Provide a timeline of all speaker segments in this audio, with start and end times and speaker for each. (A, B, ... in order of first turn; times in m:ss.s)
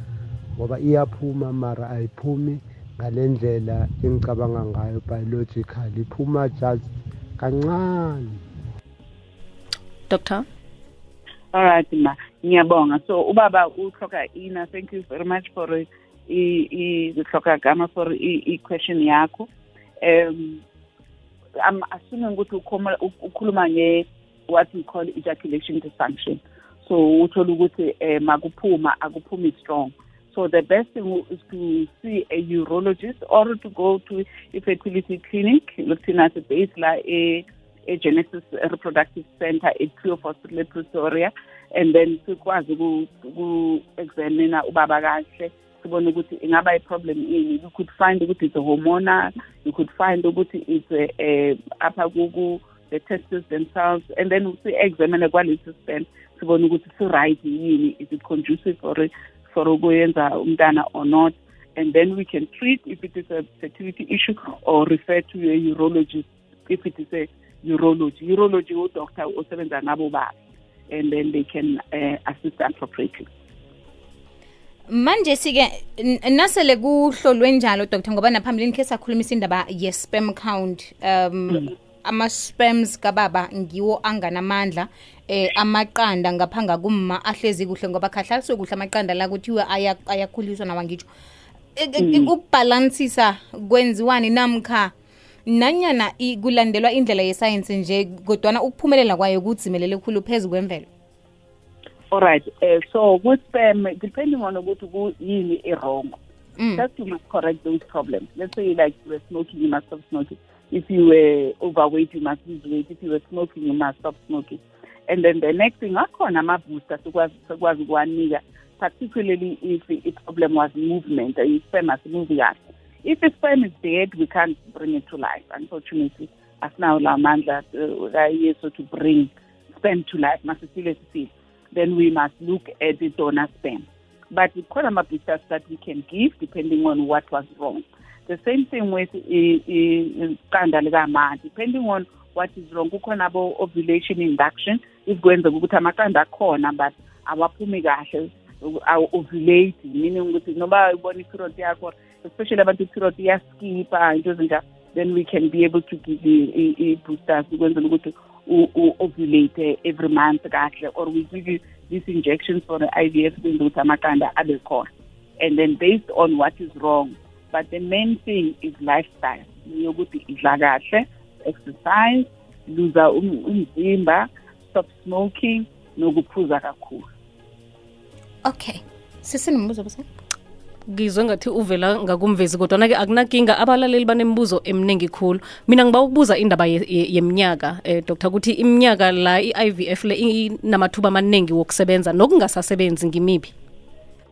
0:00.6-0:08.4 A
0:10.1-0:10.4 B
0:11.5-0:19.5 C
0:20.0-0:20.6 C
0:21.6-1:10.3 C
1:10.9-1:13.3 C
1:14.9-1:31.1 D
1:31.8-1:34.9 D
1:32.0-1:32.3 C
1:35.5-1:40.9 D
1:42.1-1:46.2 C
1:46.6-1:46.8 D
1:46.8-2:57.0 C
2:58.4-3:00.0 D
3:00.9-3:13.5 B